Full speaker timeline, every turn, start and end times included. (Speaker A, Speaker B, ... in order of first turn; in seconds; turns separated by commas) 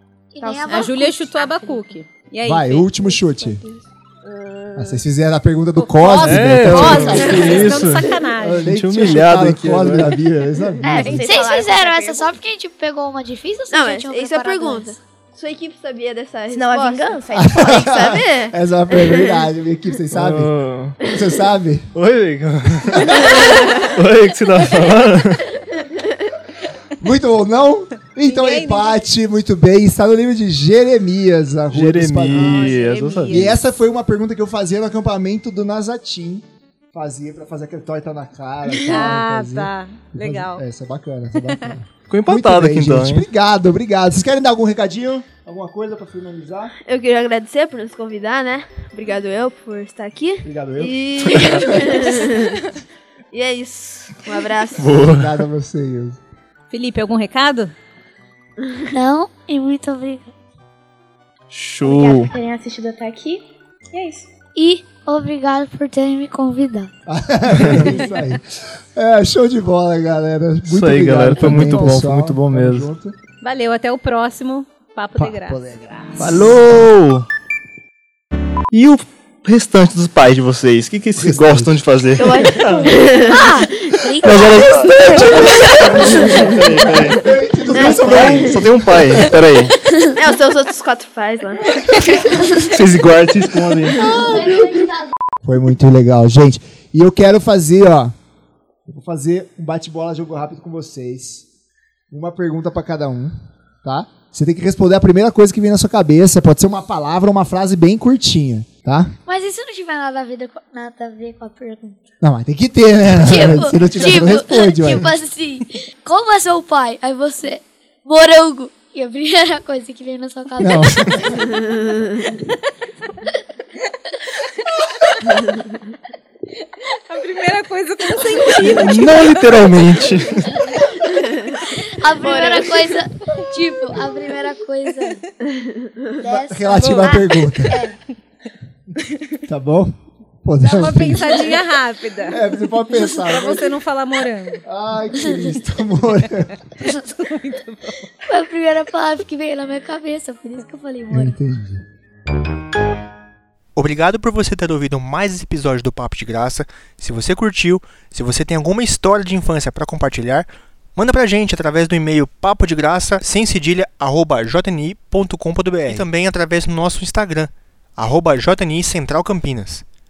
Speaker A: 0.3-1.5, Speaker B: 0.4-1.0, Speaker C: 0.7-2.9, Speaker D: 2.4-3.6, Speaker E: 3.4-5.0, Speaker D: 4.7-7.6, Speaker C: 5.8-8.7, Speaker F: 6.2-10.2, Speaker E: 7.2-7.6, Speaker D: 8.6-11.4, Speaker B: 10.8-12.3, Speaker A: 10.8-15.0, Speaker E: 13.7-19.5, Speaker B: 16.5-17.7, Speaker D: 17.3-21.9, Speaker F: 20.1-20.9, Speaker F: 21.9-25.5, Speaker D: 22.9-23.2, Speaker E: 23.2-23.9, Speaker E: 25.8-26.3, Speaker D: 27.0-46.7, Speaker C: 28.2-29.0, Speaker F: 31.7-33.5, Speaker C: 32.3-33.5, Speaker C: 38.7-40.6, Speaker F: 42.1-43.2, Speaker E: 46.9-52.6, Speaker D: 50.4-52.0, Speaker F: 51.3-51.6, Speaker E: 53.3-55.0, Speaker F: 54.8-55.4, Speaker D: 54.9-56.2, Speaker C: 56.7-57.7, Speaker A: 58.9-60.3, Speaker F: 61.5-62.3, Speaker B: 61.8-64.3, Speaker A: 64.5-66.9, Speaker D: 67.1-73.2, Speaker F: 67.6-67.9, Speaker F: 70.7-72.9, Speaker C: 73.4-75.6, Speaker D: 75.2-76.6, Speaker F: 76.2-77.2, Speaker F: 78.7-83.0, Speaker D: 81.2-82.6, Speaker E: 82.2-83.7, Speaker A: 83.2-85.0, Speaker F: 84.2-87.3, Speaker D: 85.1-89.4, Speaker E: 85.4-86.4, Speaker E: 87.7-88.6, Speaker F: 87.8-89.7, Speaker E: 90.1-92.4, Speaker F: 92.5-94.2, Speaker D: 94.0-98.1, Speaker D: 98.8-101.5, Speaker D: 102.1-109.1, Speaker A: 109.2-112.1, Speaker D: 112.2-115.1, Speaker A: 113.1-121.5, Speaker D: 120.6-121.4, Speaker C: 126.9-129.6, Speaker F: 128.6-130.6, Speaker E: 131.0-131.6, Speaker A: 131.8-135.2, Speaker E: 132.2-133.0, Speaker E: 135.5-136.1, Speaker A: 136.2-138.0, Speaker D: 136.2-137.9, Speaker C: 136.7-137.4, Speaker D: 139.4-141.6, Speaker C: 140.6-142.4, Speaker D: 142.3-143.7, Speaker C: 143.0-144.6, Speaker D: 144.6-146.6, Speaker C: 146.8-148.1, Speaker A: 148.2-151.4, Speaker D: 151.1-151.8, Speaker G: 153.8-169.8